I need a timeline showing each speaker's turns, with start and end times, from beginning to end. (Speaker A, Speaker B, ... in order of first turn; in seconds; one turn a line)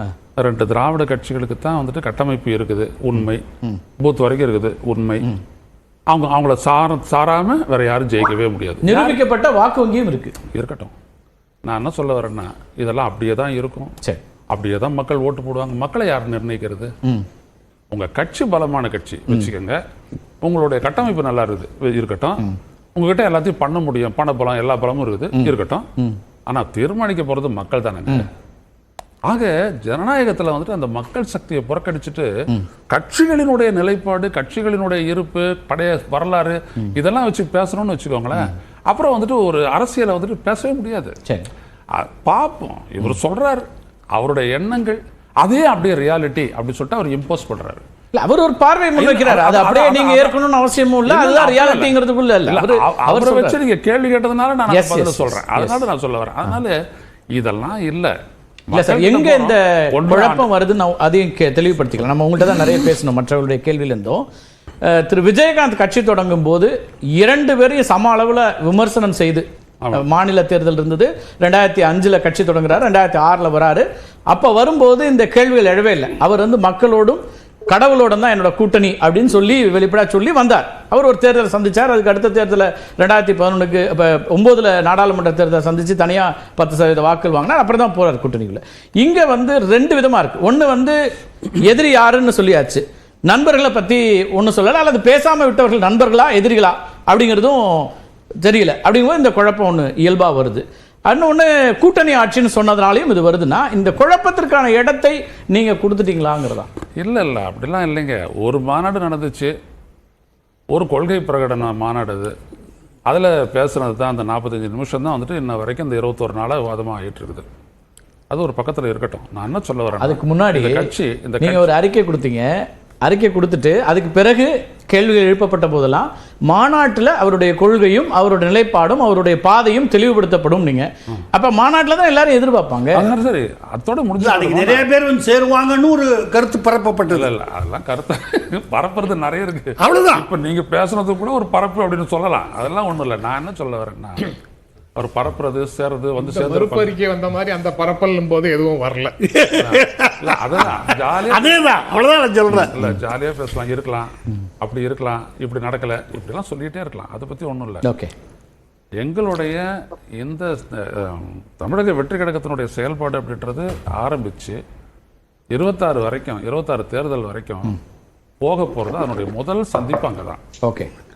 Speaker A: 0.4-3.4
Speaker A: 4.0-5.3
Speaker A: 6.1-9.2
Speaker B: 8.8-10.3
Speaker A: 10.5-10.9
Speaker A: 11.7-13.9
Speaker A: 14.5-16.9
Speaker A: 17.9-19.8
Speaker A: 20.4-25.9
Speaker B: 25.4-26.2
Speaker A: 26.5-28.3
Speaker A: 29.3-32.3
Speaker A: 32.9-41.1
Speaker A: 42.0-47.8
Speaker B: 48.1-53.6
Speaker A: 49.0-50.4
Speaker A: 51.0-52.0
Speaker A: 52.5-56.8
Speaker B: 54.7-55.9
Speaker A: 57.3-58.1
Speaker A: 58.7-60.5
Speaker B: 58.7-64.2
Speaker B: 64.8-91.0
Speaker B: 91.6-97.9
Speaker B: 98.4-106.7
Speaker A: 107.0-109.5
Speaker A: 110.7-112.3
Speaker A: 113.1-117.5
Speaker A: 118.3-121.7
Speaker B: 120.0-120.9
Speaker B: 121.4-122.5
Speaker B: 123.0-133.1
Speaker A: 132.9-134.9
Speaker C: 134.2-137.3
Speaker A: 137.1-144.3
Speaker C: 139.8-140.2
Speaker A: 145.0-146.9
Speaker D: 146.3-149.2
Speaker C: 149.2-150.3
Speaker A: 149.6-151.6
Speaker C: 151.3-152.7
Speaker A: 152.5-157.8
Speaker B: 157.8-158.1
Speaker A: 159.0-159.7
Speaker A: 160.2-164.6
Speaker A: 165.5-167.8
Speaker A: 168.4-170.4
Speaker B: 170.6-170.9